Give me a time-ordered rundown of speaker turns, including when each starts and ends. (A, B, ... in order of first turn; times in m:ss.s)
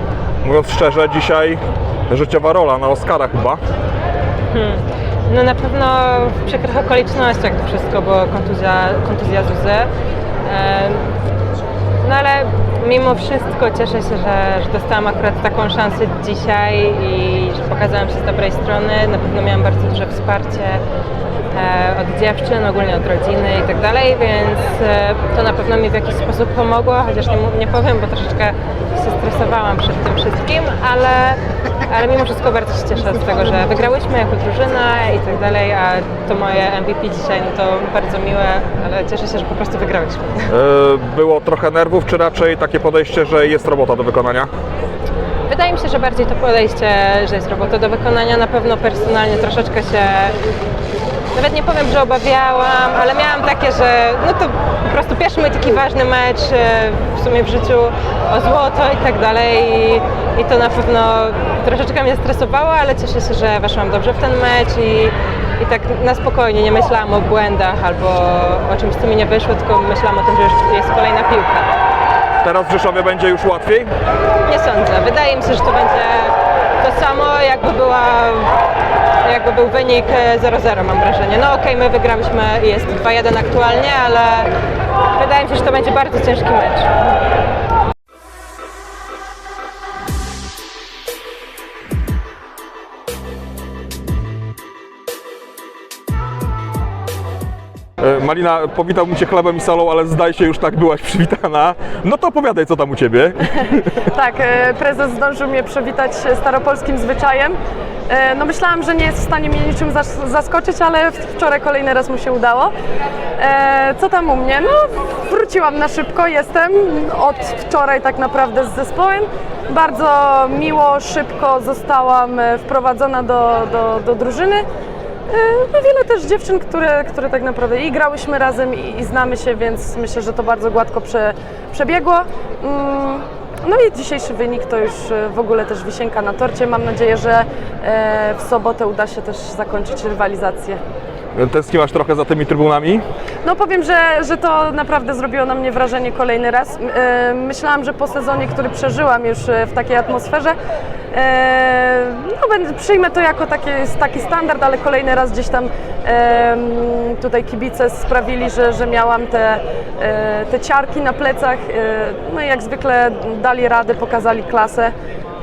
0:00.4-0:03.6 A
0:04.5-0:09.9 B
0:10.4-0:11.1 B
0:12.0-0:20.8 B
0:21.5-0:40.5 B
0:40.5-0:44.5 A
0:45.5-0:50.4 B
0:51.3-1:11.7 B
1:12.4-1:13.9 A
1:14.4-1:18.6 B
1:19.2-1:24.5 B
1:25.1-1:26.9 B
1:38.0-1:44.0 A
1:44.0-1:47.6 C
1:48.1-1:52.7 C
1:53.4-2:04.6 C
2:05.3-2:20.8 C
2:21.3-2:23.0 A
2:23.4-2:30.5 C
2:31.1-2:44.9 C